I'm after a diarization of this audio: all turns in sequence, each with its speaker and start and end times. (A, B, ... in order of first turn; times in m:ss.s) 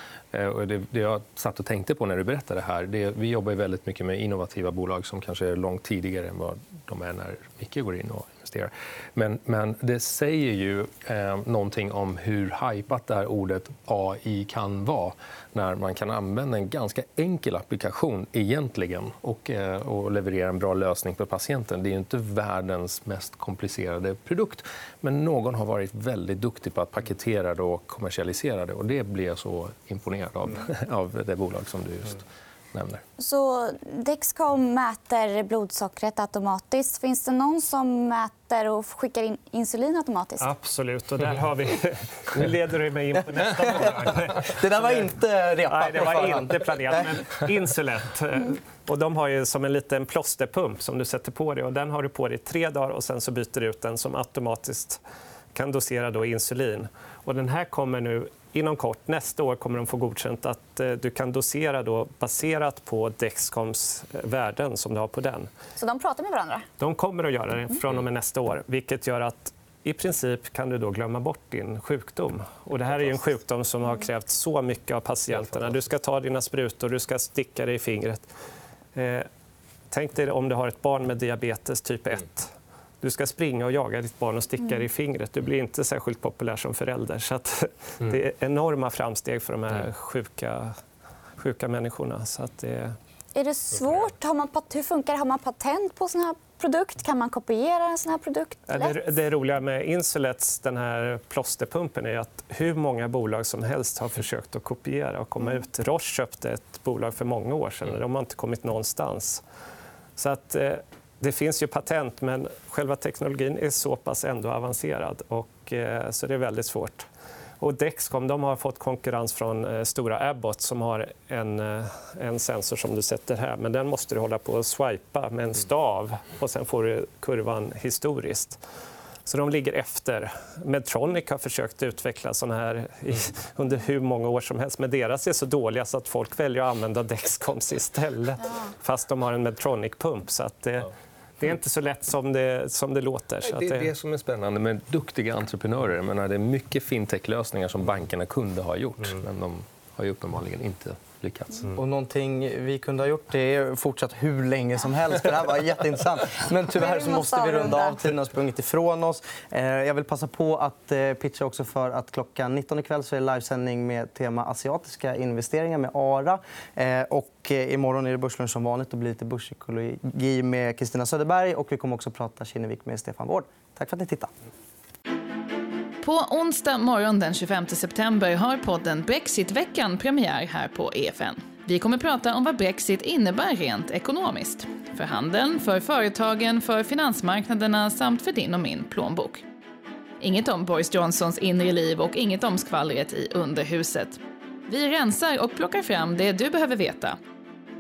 0:00.3-0:33.0 A
0:33.2-0:40.5 B
0:40.4-0:45.0 C
0:44.4-0:47.0 D
0:45.7-0:55.0 C
0:55.5-1:05.5 C
1:05.8-1:06.7 B
1:06.8-1:18.3 C
1:18.9-1:19.3 C
1:19.9-1:30.7 C
1:31.4-1:32.9 C
1:33.4-1:39.0 B
1:38.7-1:49.4 C
1:50.2-1:57.1 C
1:57.6-2:08.6 C
2:09.2-2:23.9 C
2:23.4-2:31.7 A
2:31.8-2:54.3 D
2:36.8-2:38.0 B
2:56.0-3:09.4 E
3:10.2-3:17.2 E